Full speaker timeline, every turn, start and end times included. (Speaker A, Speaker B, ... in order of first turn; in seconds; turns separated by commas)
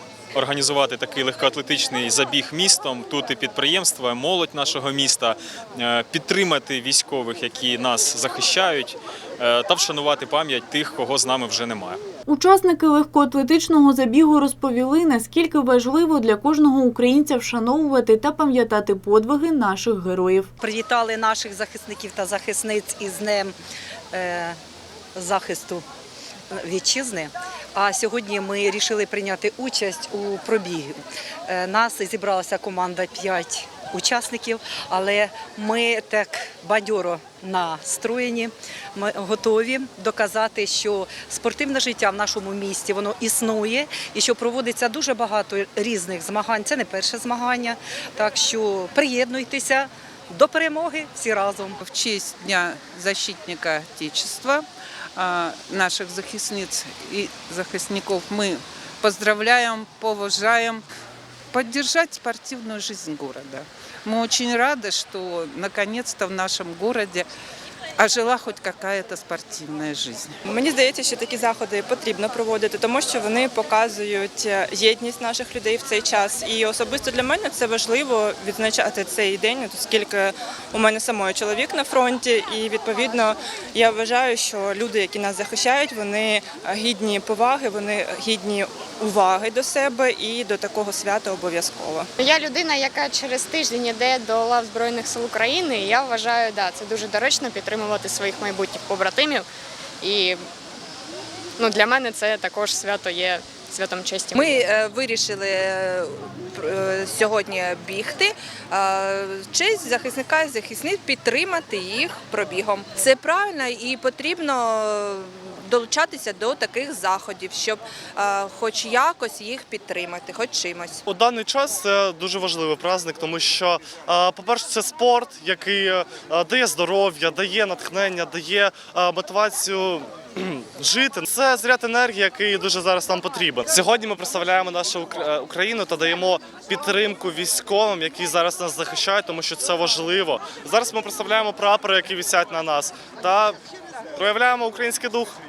Speaker A: 0.3-12.0, Speaker B: 12.3-20.5, Speaker C: 20.6-23.6, Speaker C: 24.1-24.6, Speaker C: 25.1-25.8, Speaker C: 26.5-31.0, Speaker C: 31.5-51.8, Speaker D: 51.8-54.6, Speaker D: 55.2-60.9, Speaker D: 61.5-67.3, Speaker D: 68.0-70.3, Speaker E: 70.5-92.1, Speaker F: 92.2-99.5, Speaker F: 100.0-100.4, Speaker F: 101.6-104.7, Speaker G: 104.7-106.0, Speaker G: 106.6-115.0, Speaker G: 115.8-119.4, Speaker F: 116.6-116.8, Speaker F: 119.0-120.7, Speaker G: 120.4-120.9, Speaker H: 121.1-143.6, Speaker H: 144.2-145.3